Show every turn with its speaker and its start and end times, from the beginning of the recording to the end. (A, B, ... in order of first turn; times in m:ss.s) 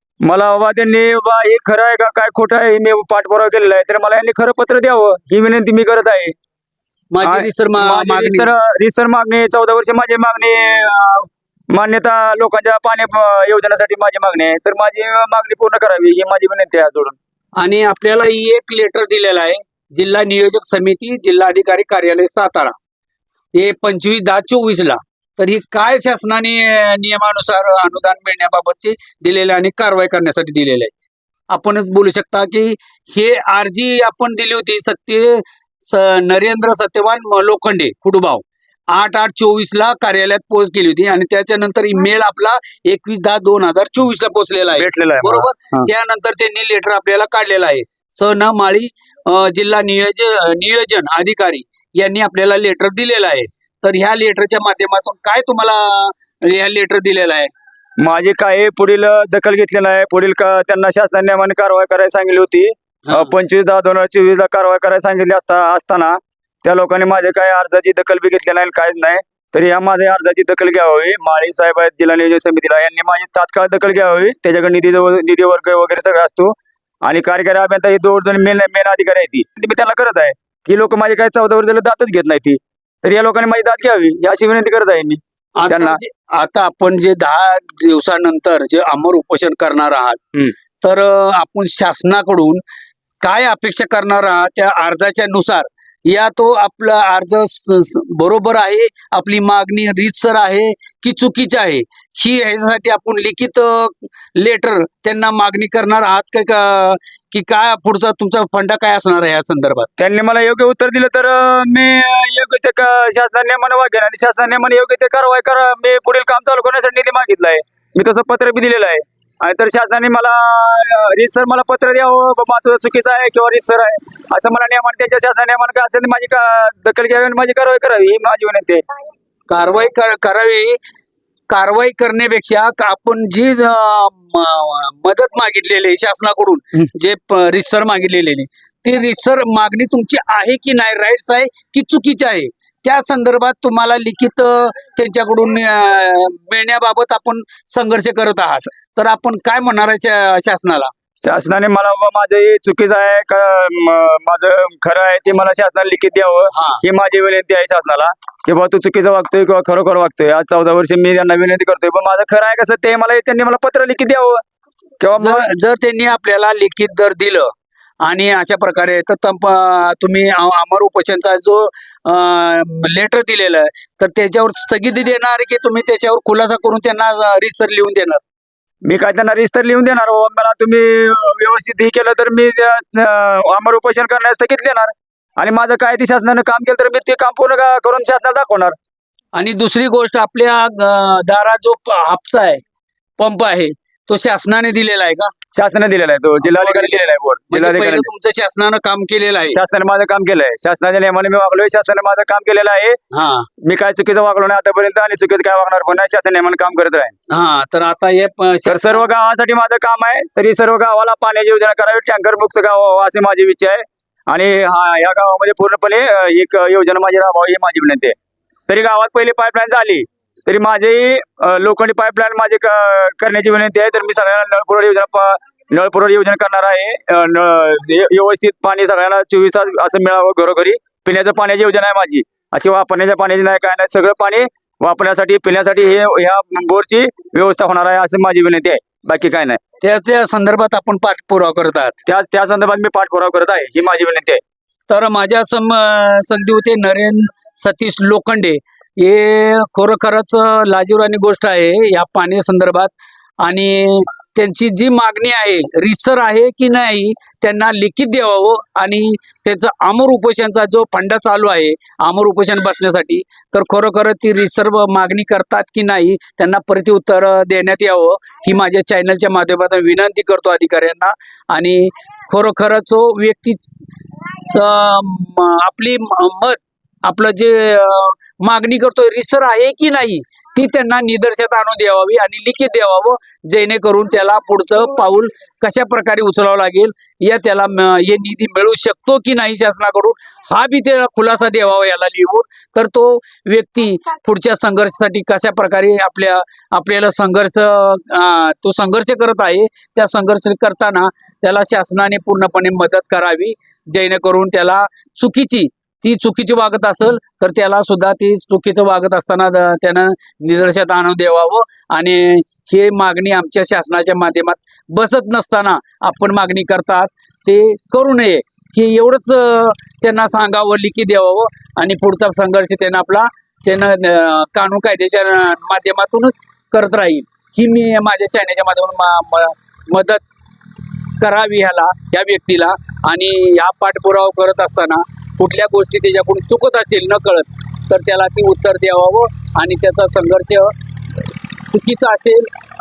0:00.2-0:06.4 A
0:07.1-0:08.5 B
0:07.2-0:17.2 A
0:17.6-0:22.7 B
0:23.5-0:30.9 B
0:31.5-0:57.5 B
0:44.8-0:45.9 A
0:58.0-1:16.5 A
1:17.0-1:26.0 A
1:25.6-1:32.6 B
1:33.2-1:49.9 B
1:50.0-2:08.8 A
2:09.5-2:10.8 B
2:11.5-2:30.9 B
2:31.2-2:44.4 A
2:36.5-2:36.8 B
2:45.0-2:45.5 A
2:45.2-2:47.5 B
2:48.0-2:58.2 B
2:58.8-3:08.8 A
3:09.3-3:12.6 B
3:13.2-3:15.3 B
3:15.5-3:18.1 A
3:16.4-3:19.6 B
3:19.5-3:23.0 A
3:23.1-3:23.5 B
3:23.6-3:27.1 A
3:27.3-3:29.0 B
3:28.6-3:38.1 A
3:38.7-3:59.6 A
3:59.8-4:02.0 B
4:02.0-4:04.4 A
4:04.9-4:33.7 B
4:34.4-5:30.2 B
5:31.2-5:40.7 B
5:41.7-5:42.5 B